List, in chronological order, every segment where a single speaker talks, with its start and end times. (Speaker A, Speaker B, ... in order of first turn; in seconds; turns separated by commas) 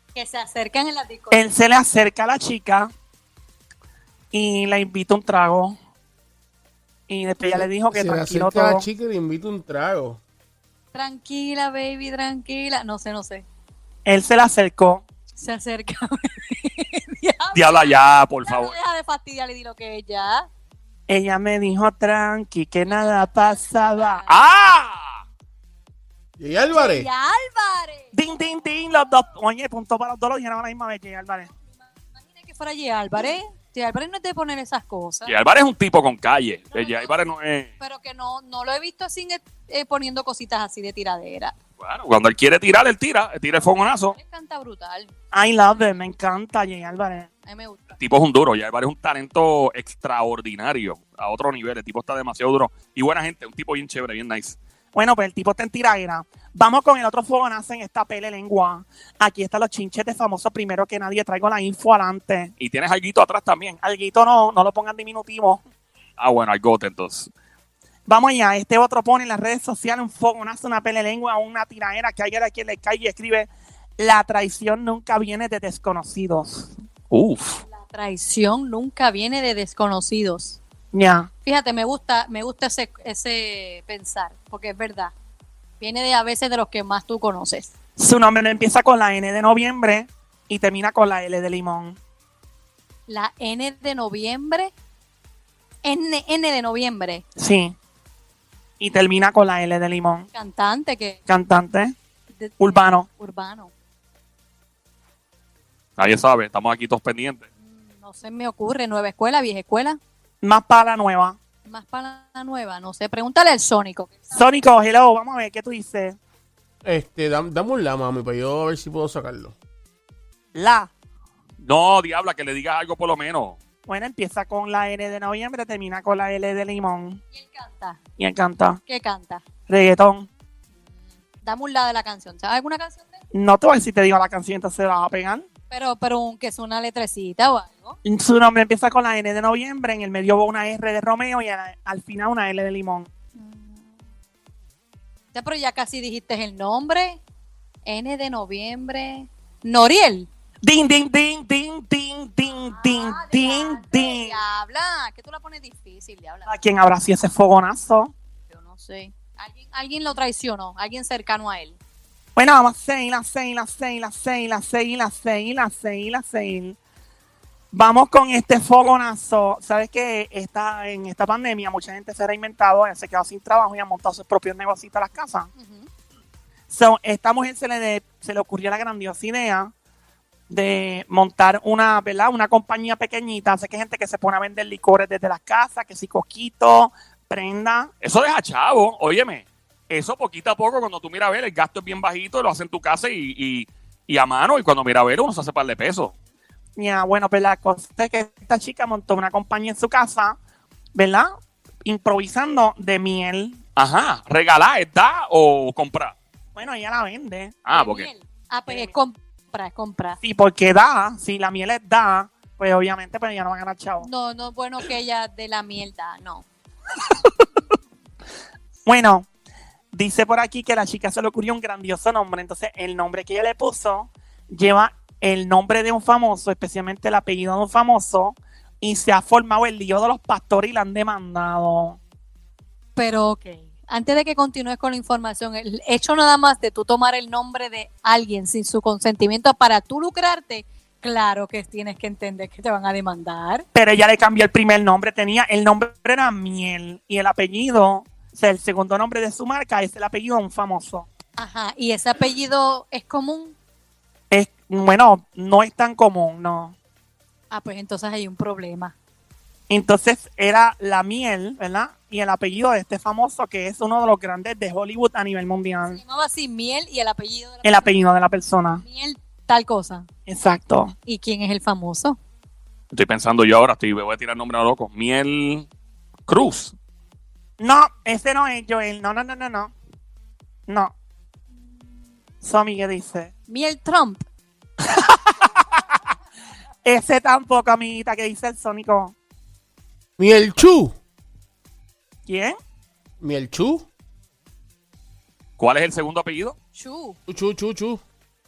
Speaker A: 0.1-1.4, Speaker B: 1.3-2.9, Speaker B: 4.3-5.8, Speaker B: 7.1-8.8, Speaker C: 7.5-10.2, Speaker A: 10.9-13.4, Speaker B: 14.1-15.1, Speaker A: 15.4-17.9, Speaker D: 17.5-18.8, Speaker A: 18.5-20.5, Speaker B: 21.1-24.2, Speaker A: 24.0-24.3, Speaker D: 24.3-25.2, Speaker C: 26.4-27.1, Speaker A: 26.7-28.1, Speaker B: 28.1-31.5, Speaker A: 32.0-35.4, Speaker D: 35.3-37.7, Speaker A: 36.7-37.2, Speaker A: 37.8-41.5, Speaker D: 41.8-44.2, Speaker A: 44.1-45.1, Speaker B: 45.3-47.3, Speaker A: 47.5-48.0, Speaker D: 48.0-54.6, Speaker B: 55.0-62.5, Speaker D: 62.6-63.8, Speaker B: 63.8-65.6, Speaker D: 66.2-67.3, Speaker B: 68.1-76.7, Speaker D: 77.1-77.6, Speaker A: 77.7-80.6, Speaker B: 80.9-81.3, Speaker A: 81.5-85.1, Speaker A: 85.8-87.7, Speaker B: 88.0-92.0, Speaker A: 93.1-94.7, Speaker A: 95.8-97.2, Speaker B: 97.4-97.8, Speaker B: 98.8-100.3, Speaker A: 100.3-101.2, Speaker B: 101.3-102.0, Speaker A: 102.4-103.7, Speaker B: 102.6-103.1, Speaker D: 106.0-107.5, Speaker A: 107.6-110.0, Speaker B: 110.4-111.4, Speaker A: 111.7-114.4, Speaker B: 114.3-116.2, Speaker C: 116.8-119.5, Speaker B: 120.5-120.9, Speaker D: 121.6-123.6, Speaker B: 123.9-127.2, Speaker A: 127.3-128.0, Speaker B: 128.2-128.8, Speaker A: 128.9-129.4, Speaker B: 129.7-130.3, Speaker A: 131.4-133.2, Speaker B: 133.3-135.5, Speaker A: 135.7-138.0, Speaker B: 138.1-143.1, Speaker A: 143.4-143.9, Speaker A: 145.3-147.2, Speaker A: 147.8-150.3, Speaker B: 150.6-154.3, Speaker A: 152.7-156.5, Speaker B: 156.5-158.1, Speaker A: 158.5-161.8, Speaker B: 162.4-166.8, Speaker B: 167.7-175.5, Speaker A: 175.6-175.9, Speaker B: 176.7-179.7, Speaker B: 180.5-187.9, Speaker D: 188.0-196.1, Speaker B: 196.8-200.4, Speaker B: 200.9-201.3, Speaker B: 201.8-203.6, Speaker D: 203.8-206.2, Speaker B: 206.6-207.6, Speaker D: 207.7-208.1, Speaker A: 207.7-210.2, Speaker B: 210.2-214.1, Speaker A: 214.0-216.5, Speaker B: 218.9-219.3, Speaker B: 219.9-232.0, Speaker A: 233.0-243.7, Speaker B: 243.7-251.1, Speaker A: 251.4-253.6, Speaker B: 254.3-256.8, Speaker A: 257.5-258.9, Speaker B: 259.7-266.0, Speaker A: 265.9-267.9, Speaker B: 267.6-268.8, Speaker A: 268.8-270.1, Speaker B: 270.3-270.9, Speaker A: 271.1-272.2, Speaker D: 272.9-275.7, Speaker D: 276.3-276.7, Speaker B: 277.6-279.7, Speaker B: 280.7-280.9, Speaker B: 282.4-283.3, Speaker A: 283.5-284.3, Speaker B: 284.9-285.3, Speaker B: 286.9-289.1, Speaker C: 290.2-290.9, Speaker B: 292.3-292.6, Speaker C: 293.2-293.9, Speaker D: 295.6-296.6, Speaker A: 296.8-297.2, Speaker C: 297.3-298.0